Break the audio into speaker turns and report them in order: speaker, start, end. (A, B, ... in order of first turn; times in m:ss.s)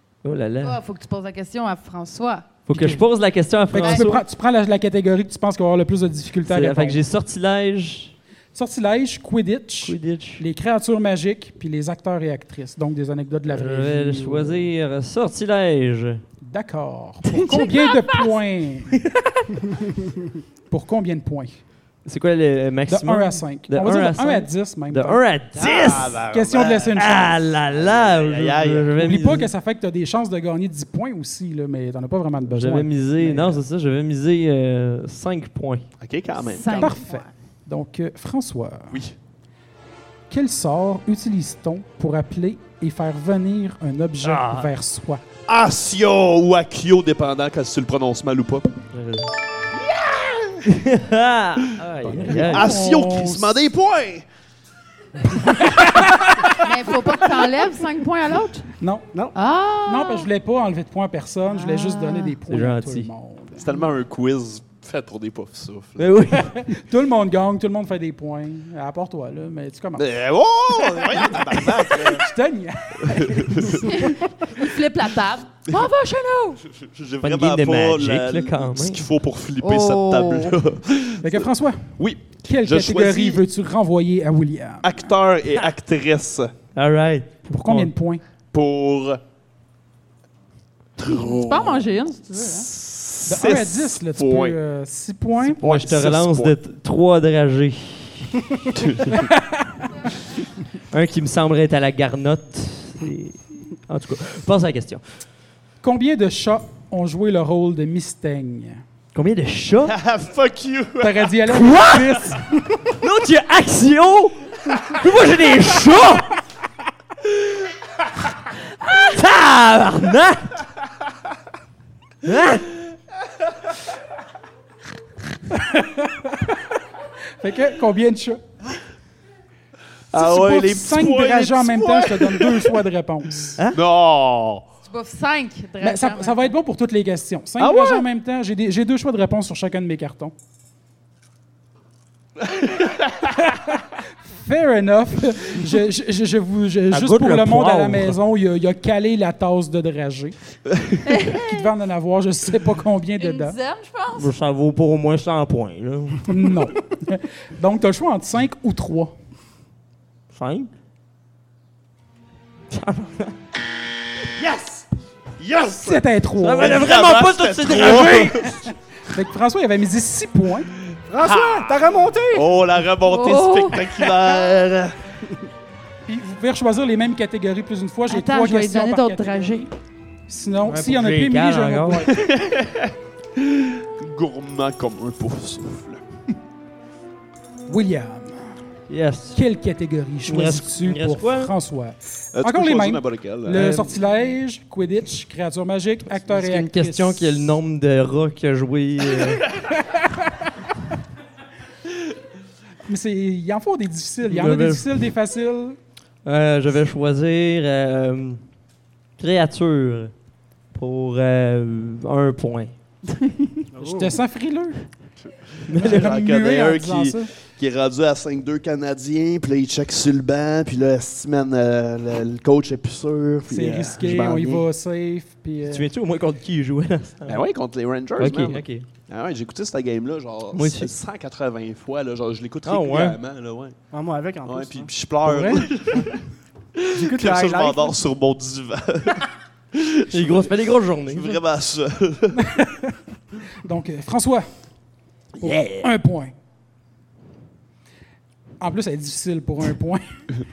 0:00.2-0:00.8 A
0:00.6-0:02.6 B
0:02.7-0:04.2 A
0:02.7-0:03.0 C
0:03.7-0:07.0 C
0:03.8-0:04.1 B
0:06.4-0:08.1 A
0:08.5-0:14.7 C
0:09.8-0:10.4 A
0:13.5-0:16.2 A
0:16.4-0:18.9 C
0:17.6-0:17.8 B
0:19.0-0:19.4 A
0:20.7-0:21.6 C
0:22.0-0:26.2 A
0:22.9-0:25.2 C
0:25.5-0:27.0 D
0:26.3-0:27.4 C
0:26.9-0:29.5 A
0:27.7-0:28.9 D
0:29.0-0:33.6 C
0:32.4-0:35.8 A
0:36.0-0:36.9 D
0:36.4-0:37.3 B
0:36.7-0:39.0 C
0:38.9-0:39.2 D
0:40.3-0:45.2 C
0:44.2-0:44.7 A
0:45.5-0:48.7 D
0:48.9-0:49.3 A
0:49.7-0:50.7 D
0:50.7-0:52.9 A
0:52.0-0:54.2 D
0:52.3-0:53.6 C
0:55.6-0:56.6 C
0:56.6-0:58.7 B
0:58.8-0:59.1 C
0:59.3-1:00.3 B
0:59.8-1:03.6 C
1:01.5-1:02.4 B
1:02.5-1:03.1 A
1:03.6-1:06.2 D
1:06.0-1:06.5 A
1:06.4-1:10.1 C
1:10.0-1:12.3 D
1:11.2-1:14.2 C
1:13.0-1:14.6 D
1:13.8-1:16.6 B
1:16.8-1:23.4 D
1:17.2-1:19.1 A
1:19.6-1:20.6 B
1:21.2-1:25.1 C
1:24.8-1:26.5 D
1:26.7-1:27.9 A
1:27.5-1:28.2 C
1:28.5-1:29.2 D
1:31.0-1:31.8 D
1:31.0-1:32.7 B
1:32.4-1:34.6 D
1:33.2-1:35.6 C
1:35.5-1:36.5 D
1:35.6-1:38.6 A
1:38.7-1:39.2 D
1:39.1-1:39.9 C
1:40.9-1:45.0 A
1:45.8-1:48.8 C
1:49.1-1:50.0 A
1:49.8-1:51.4 D
1:51.0-1:52.8 C
1:51.5-1:52.4 A
1:52.9-1:56.4 A
1:58.8-2:00.6 A
2:02.2-2:02.7 A
2:05.5-2:06.7 C
2:07.4-2:08.4 C
2:10.1-2:12.8 D
2:10.1-2:13.6 C
2:13.7-2:14.6 D
2:14.8-2:16.5 B
2:15.8-2:20.3 C
2:17.6-2:18.0 D
2:22.4-2:23.2 D
2:24.3-2:30.4 C
2:26.9-2:28.2 A
2:31.0-2:31.7 B
2:31.3-2:33.6 C
2:33.2-2:34.3 B
2:34.2-2:36.3 A
2:36.2-2:39.1 C
2:40.3-2:40.7 A
2:42.7-2:43.3 A
2:44.3-2:44.9 D
2:45.4-2:46.0 D
2:45.8-2:46.8 C
2:46.4-2:48.5 A
2:46.6-2:48.7 D
2:49.1-2:50.7 C
2:51.1-2:52.6 E
2:51.2-2:51.7 D
2:52.3-2:55.0 D
2:53.0-2:54.3 B
2:56.1-2:59.7 C
2:58.1-2:59.7 B
3:00.3-3:02.2 C
3:00.6-3:02.1 A
3:02.1-3:06.0 D
3:07.7-3:08.6 C
3:08.9-3:09.4 A
3:09.3-3:17.5 C
3:10.3-3:11.5 A
3:12.3-3:13.8 D
3:13.5-3:13.9 A
3:16.2-3:19.5 A
3:19.9-3:20.4 C
3:22.9-3:25.8 C
3:24.2-3:25.1 A
3:26.2-3:28.4 A
3:29.2-3:30.1 A
3:30.7-3:32.7 A
3:33.2-3:33.4 B
3:33.7-3:34.2 E
3:34.0-3:34.8 C
3:35.7-3:36.2 A
3:35.7-3:44.6 D
3:35.8-3:37.3 C
3:43.5-3:45.9 C
3:45.6-3:47.4 A
3:47.2-3:53.8 D
3:48.2-3:48.8 A
3:50.5-3:50.9 A
3:52.6-3:53.2 A
3:53.9-3:54.9 E
3:54.4-3:56.2 D
3:55.2-3:56.0 C
3:56.8-4:00.5 D
3:56.9-3:58.0 E
4:00.1-4:01.4 A
4:01.1-4:02.5 D
4:02.4-4:02.9 C
4:03.6-4:04.5 C
4:05.4-4:06.3 C
4:08.6-4:10.2 C